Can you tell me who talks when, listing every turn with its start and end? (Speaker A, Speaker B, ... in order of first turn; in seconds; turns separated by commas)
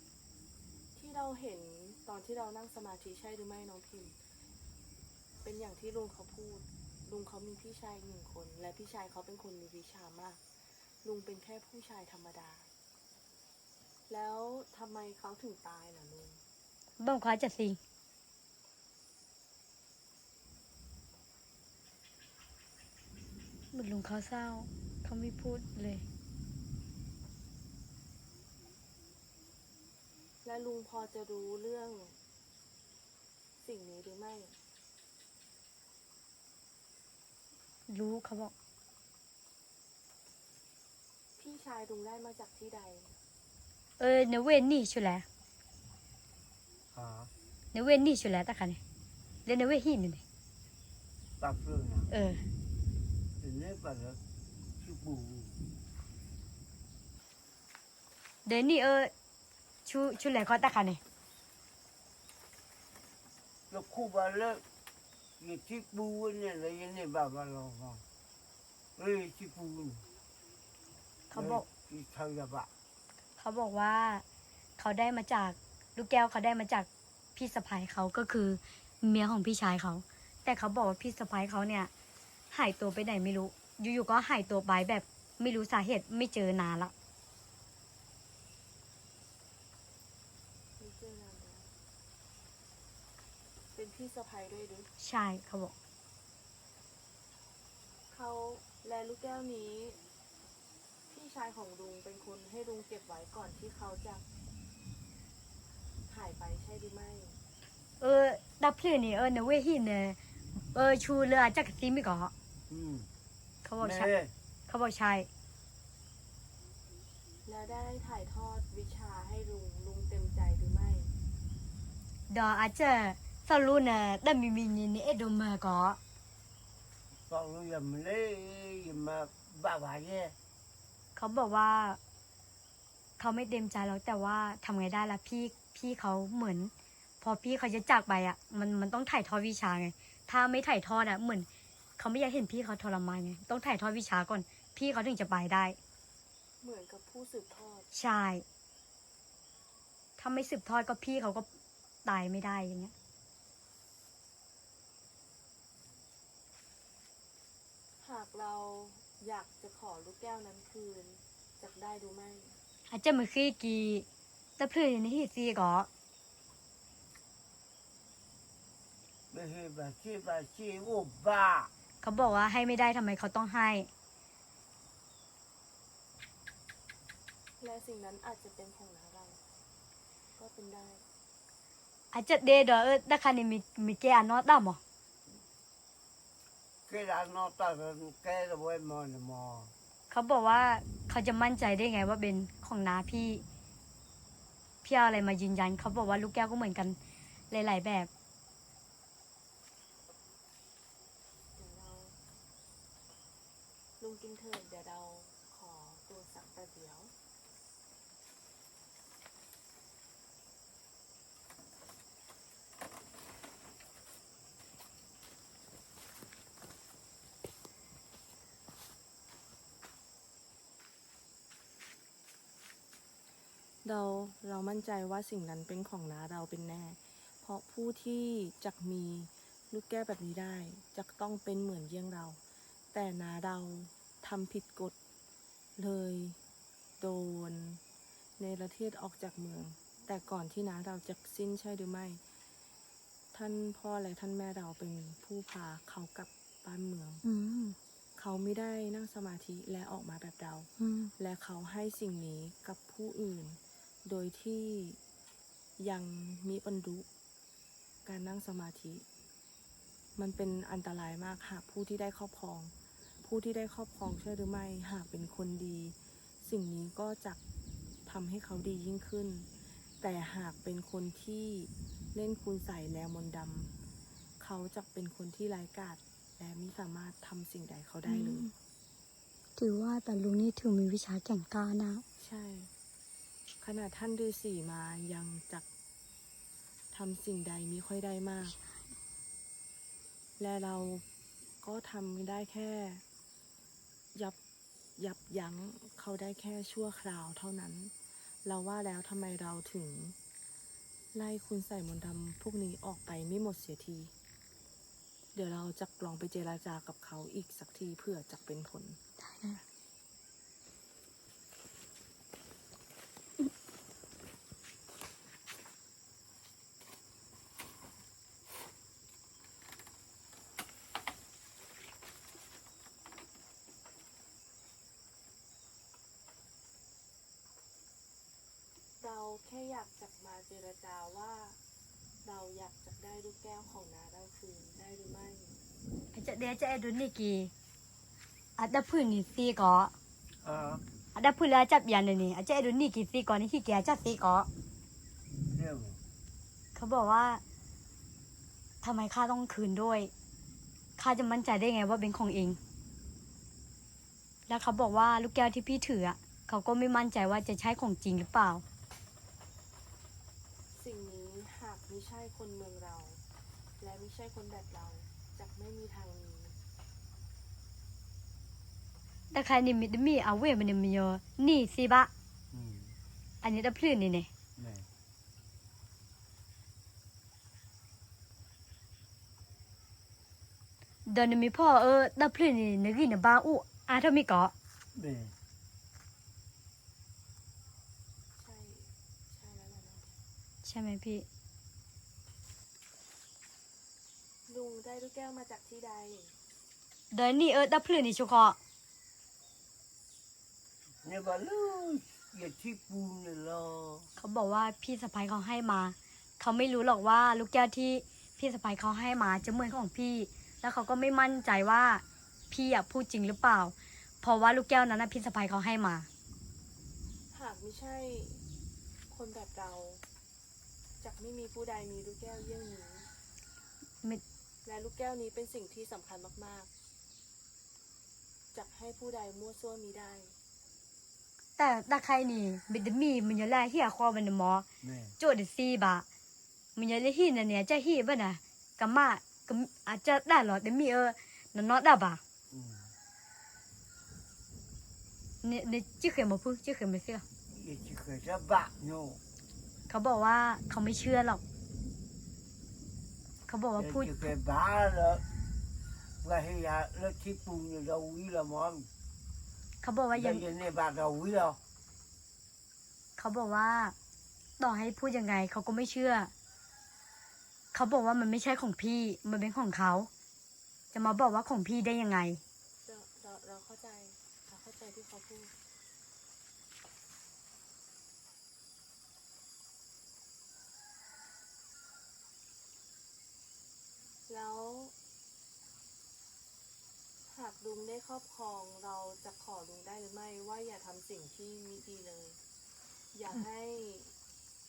Speaker A: 0.9-4.2, Speaker A: 5.4-10.4, Speaker A: 11.0-12.7, Speaker A: 14.1-16.4, Speaker B: 17.0-17.8, Speaker B: 23.7-26.0, Speaker A: 30.4-32.2, Speaker A: 33.6-34.6, Speaker B: 37.9-38.5, Speaker A: 41.4-43.1, Speaker B: 44.0-45.2, Speaker C: 46.9-47.3, Speaker B: 47.7-48.8, Speaker B: 49.5-50.2, Speaker C: 51.4-52.1, Speaker B: 52.1-52.4, Speaker C: 53.4-54.2, Speaker C: 54.8-55.6, Speaker B: 58.4-59.1, Speaker B: 59.8-61.0, Speaker C: 63.7-64.6, Speaker C: 65.4-68.0, Speaker C: 69.0-70.0, Speaker B: 71.3-71.6, Speaker C: 71.3-72.7, Speaker B: 73.4-74.2, Speaker B: 74.8-81.9, Speaker B: 82.5-86.9, Speaker A: 90.8-91.7, Speaker A: 93.7-94.9, Speaker B: 95.0-95.7, Speaker A: 98.1-100.0, Speaker A: 101.1-104.2, Speaker A: 106.1-107.4, Speaker B: 108.0-112.3, Speaker C: 112.7-113.1, Speaker B: 113.6-114.1, Speaker C: 113.8-114.3, Speaker B: 114.7-115.3, Speaker A: 117.5-121.1, Speaker B: 122.3-126.0, Speaker C: 127.3-130.3, Speaker B: 131.1-132.0, Speaker B: 133.2-141.5, Speaker B: 142.0-145.8, Speaker A: 146.6-147.9, Speaker B: 147.9-148.4, Speaker B: 150.2-151.4, Speaker B: 152.0-152.9, Speaker A: 158.0-162.6, Speaker B: 162.9-164.1, Speaker B: 164.6-165.9, Speaker C: 169.3-171.7, Speaker B: 172.0-173.9, Speaker A: 177.6-179.4, Speaker A: 180.4-181.0, Speaker B: 182.1-184.8, Speaker C: 186.9-189.7, Speaker B: 190.1-193.4, Speaker B: 194.8-197.0, Speaker B: 197.5-198.1, Speaker A: 201.6-202.2, Speaker A: 204.0-207.1, Speaker A: 223.8-232.4, Speaker A: 232.9-234.9, Speaker A: 235.8-236.4, Speaker A: 237.0-237.8, Speaker A: 238.4-242.2, Speaker A: 243.3-247.2, Speaker B: 247.2-247.8, Speaker A: 248.2-255.0, Speaker B: 250.8-251.1, Speaker A: 255.8-257.1, Speaker A: 258.1-259.0, Speaker A: 260.2-267.4, Speaker A: 268.1-269.5, Speaker A: 270.0-273.7, Speaker A: 274.4-278.5, Speaker B: 278.1-278.5, Speaker B: 279.6-282.0, Speaker A: 282.2-282.7, Speaker A: 283.6-285.6, Speaker A: 286.9-288.6, Speaker A: 290.4-291.0, Speaker A: 291.6-293.0, Speaker A: 295.0-297.9, Speaker A: 298.4-300.1, Speaker A: 301.1-304.1, Speaker A: 305.3-309.0, Speaker B: 309.3-309.6, Speaker A: 329.0-331.6, Speaker A: 332.2-335.6, Speaker B: 336.1-337.5, Speaker B: 338.6-339.9, Speaker C: 340.4-340.8, Speaker B: 341.1-344.5, Speaker C: 345.5-346.0, Speaker B: 346.7-347.4, Speaker B: 348.8-350.1, Speaker B: 351.0-352.6, Speaker B: 354.5-358.6, Speaker A: 360.7-363.2, Speaker A: 363.8-366.6, Speaker B: 369.3-372.1, Speaker C: 372.5-372.9, Speaker B: 373.4-374.3, Speaker C: 374.6-374.9, Speaker B: 381.1-384.5, Speaker C: 384.9-385.3, Speaker A: 388.4-390.1, Speaker B: 390.6-391.2, Speaker A: 394.5-396.3, Speaker B: 397.1-398.6, Speaker C: 401.0-404.1, Speaker B: 404.2-416.1, Speaker A: 417.3-418.4, Speaker A: 419.1-420.0, Speaker A: 421.0-423.1, Speaker A: 424.6-426.7, Speaker A: 428.5-430.3, Speaker B: 431.6-434.6, Speaker C: 434.8-435.1, Speaker B: 435.2-436.0, Speaker B: 436.8-442.2, Speaker C: 442.5-442.9, Speaker B: 445.4-447.2, Speaker C: 447.5-449.2, Speaker B: 449.9-451.4, Speaker B: 453.5-454.3, Speaker C: 453.8-455.2, Speaker C: 456.2-458.9, Speaker B: 459.8-460.5, Speaker C: 460.1-461.6, Speaker B: 463.2-463.9, Speaker B: 464.6-466.3, Speaker B: 467.7-470.1, Speaker B: 470.9-472.4, Speaker A: 472.8-475.5, Speaker A: 484.3-484.9, Speaker A: 487.3-492.4, Speaker A: 493.1-494.1